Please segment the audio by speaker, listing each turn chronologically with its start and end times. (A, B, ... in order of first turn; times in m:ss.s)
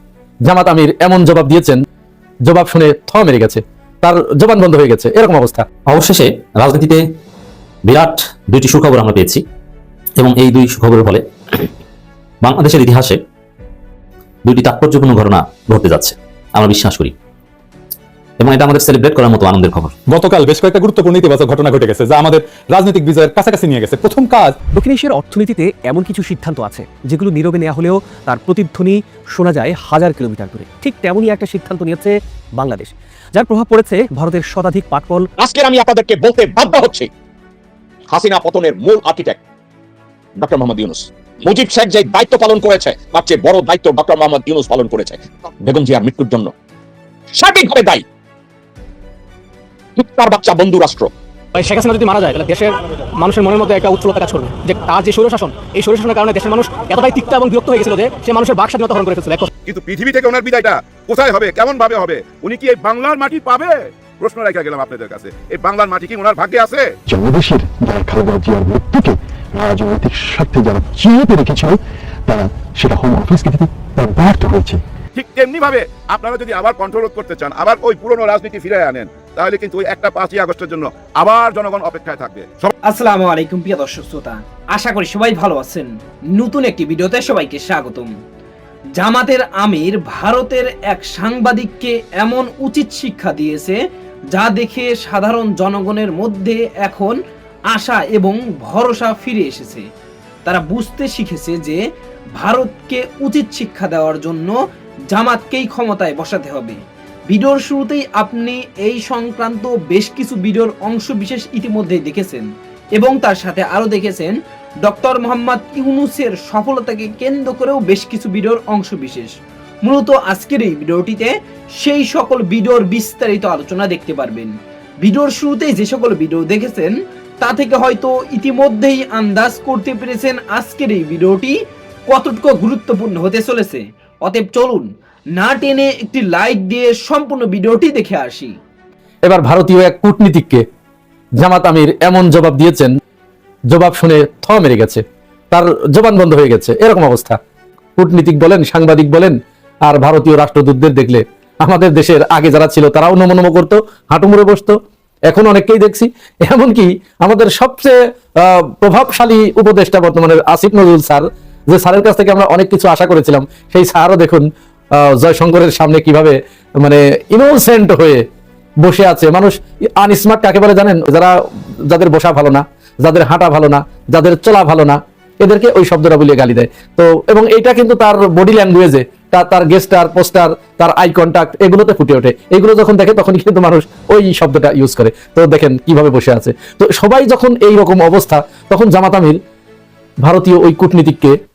0:00.5-0:01.8 A
0:02.5-0:05.6 A
0:05.9-0:07.0 B
0:07.8-0:09.4 B
0:10.2-0:11.7 B
0:12.4-0:13.2 B
0:14.4-0:17.1 B
0:18.4-0:19.9 B
0:20.1-0:24.6 C
0:24.7-0:35.2 D
0:35.4-0:37.1 E
0:38.1-0:39.4 E
0:40.4-0:46.5 E
0:47.3-0:48.0 E
0:50.0-0:51.1 E
0:51.6-0:52.7 F
0:52.0-0:52.6 D
0:53.2-0:59.5 F
0:59.6-1:06.9 G
1:07.1-1:14.8 H
1:15.1-1:22.7 G
1:22.9-1:28.1 I
1:29.0-1:33.8 I
1:34.4-1:37.1 I
1:37.7-1:39.8 I
1:40.4-1:41.8 I
1:42.4-1:44.5 I
1:45.1-1:46.8 I
1:47.3-1:52.4 I
1:53.0-1:54.3 I
1:54.8-1:59.3 I
1:59.8-2:01.3 I
2:01.8-2:04.5 I
2:05.0-2:06.9 I
2:07.4-2:11.5 I
2:12.1-2:14.8 I
2:15.4-2:18.5 I
2:19.3-2:20.6 A
2:21.4-2:22.9 A
2:23.7-2:27.4 A
2:28.0-2:29.3 A
2:29.8-2:34.8 A
2:35.3-2:48.2 A
2:48.8-3:09.4 A
3:10.2-3:11.3 A